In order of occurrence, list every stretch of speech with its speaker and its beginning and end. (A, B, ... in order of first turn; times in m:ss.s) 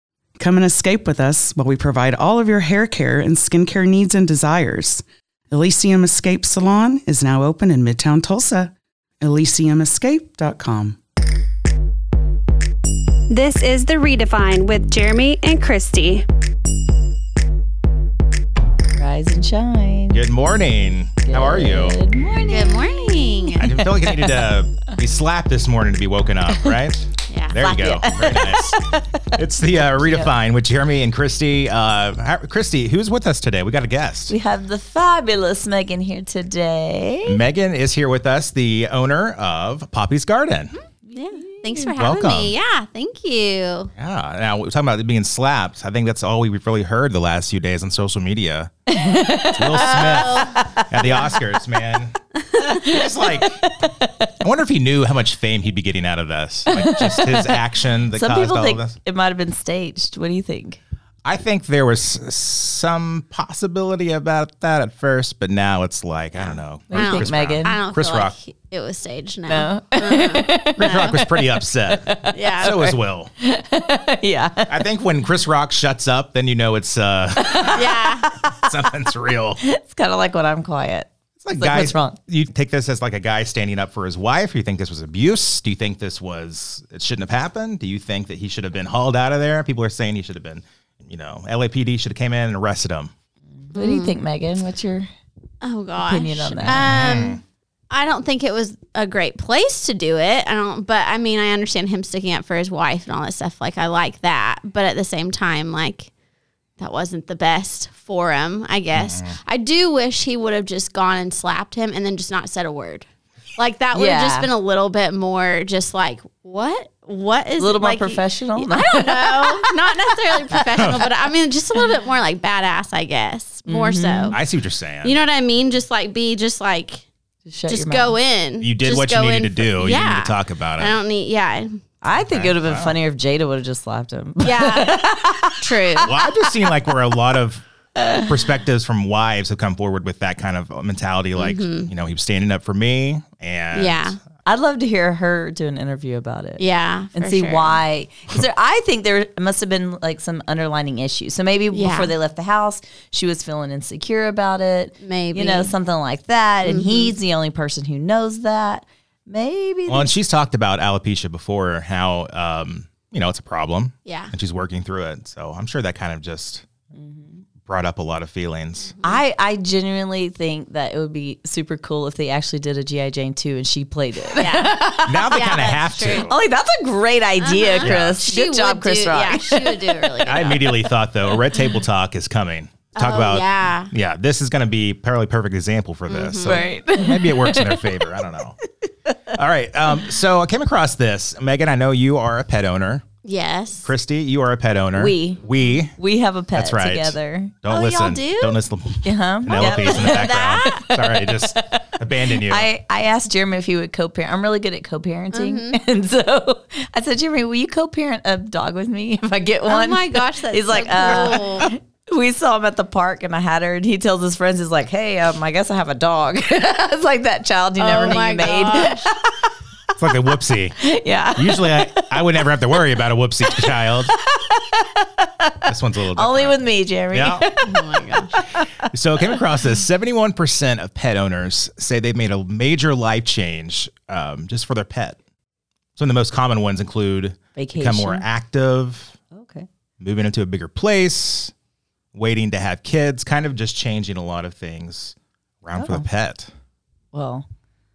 0:00.4-0:11.0 A
0:13.5-0:15.7 B
0:18.9-0:20.2 C
0:20.1-0:22.0 D
0:21.3-0:24.5 C
0:22.3-0:23.7 E
0:23.6-0:28.8 D
0:26.5-0:26.8 C
0:27.3-0:27.6 E
0:27.6-0:29.4 C
0:29.3-0:34.3 D
0:30.0-0:30.3 C
0:34.3-0:37.4 C
0:37.2-0:40.7 D
0:41.1-0:41.9 C
0:41.1-0:43.9 E
0:42.0-0:42.5 D
0:44.0-0:48.7 D
0:48.9-0:51.2 C
0:49.5-0:52.2 D
0:49.7-0:50.6 E
0:52.4-0:52.9 E
0:52.7-0:54.3 C
0:52.7-0:53.7 D
0:54.4-0:58.9 D
0:56.7-0:57.6 C
0:58.1-1:00.8 C
1:01.2-1:08.4 D
1:06.4-1:11.0 E
1:06.9-1:07.8 C
1:09.5-1:14.8 C
1:10.8-1:13.3 D
1:12.3-1:12.7 E
1:14.7-1:17.9 D
1:17.4-1:18.9 C
1:17.7-1:18.4 E
1:18.4-1:19.6 D
1:19.6-1:22.2 C
1:21.4-1:33.1 D
1:33.7-1:35.1 C
1:33.7-1:34.2 E
1:35.6-1:46.1 E
1:36.0-1:36.9 C
1:36.8-1:37.4 D
1:46.8-2:04.3 E
1:48.9-1:49.4 D
1:53.9-1:54.5 C
1:57.6-2:00.7 C
2:00.8-2:01.0 D
2:03.6-2:04.4 C
2:04.3-2:05.2 D
2:05.0-2:07.0 E
2:07.4-2:08.2 C
2:07.6-2:11.7 E
2:08.6-2:11.0 D
2:12.0-2:16.8 C
2:12.2-2:13.0 D
2:14.4-2:16.1 E
2:16.0-2:24.1 D
2:18.0-2:18.4 C
2:21.4-2:21.9 E
2:23.7-2:24.2 E
2:24.4-2:26.6 C
2:26.6-2:27.8 E
2:27.2-2:40.1 C
2:31.7-2:32.2 E
2:35.0-2:35.7 E
2:36.6-2:37.2 E
2:39.9-2:46.6 D
2:44.0-2:44.3 E
2:46.9-2:47.4 C
2:47.6-2:49.0 D
2:48.9-2:49.2 E
2:49.0-3:00.1 C
2:54.3-2:54.8 E
2:55.0-2:56.3 D
2:55.3-2:56.3 E
2:57.4-3:00.7 E
2:57.8-2:58.2 D
3:00.2-3:08.6 D
3:01.3-3:01.7 C
3:02.9-3:03.9 E
3:06.1-3:06.6 E
3:06.4-3:08.2 C
3:09.1-3:09.4 C
3:09.3-3:13.0 D
3:13.2-3:13.9 E
3:13.8-3:15.9 D
3:15.0-3:17.6 C
3:16.5-3:22.7 D
3:17.7-3:18.6 E
3:19.0-3:39.5 C
3:19.8-3:20.9 E
3:25.3-3:25.8 E
3:29.6-3:31.7 E
3:37.8-3:39.1 E
3:40.0-3:40.7 D
3:40.8-3:42.9 C
3:41.4-3:44.1 D
3:43.6-3:49.3 C
3:45.6-3:46.6 D
3:47.1-3:47.5 D
3:47.6-3:48.4 E
3:48.9-3:55.2 D
3:56.0-3:59.2 D
3:57.6-3:58.2 C
3:59.3-3:59.7 C
4:00.0-4:01.5 D
4:02.1-4:06.5 D
4:05.7-4:06.0 C
4:07.1-4:07.4 C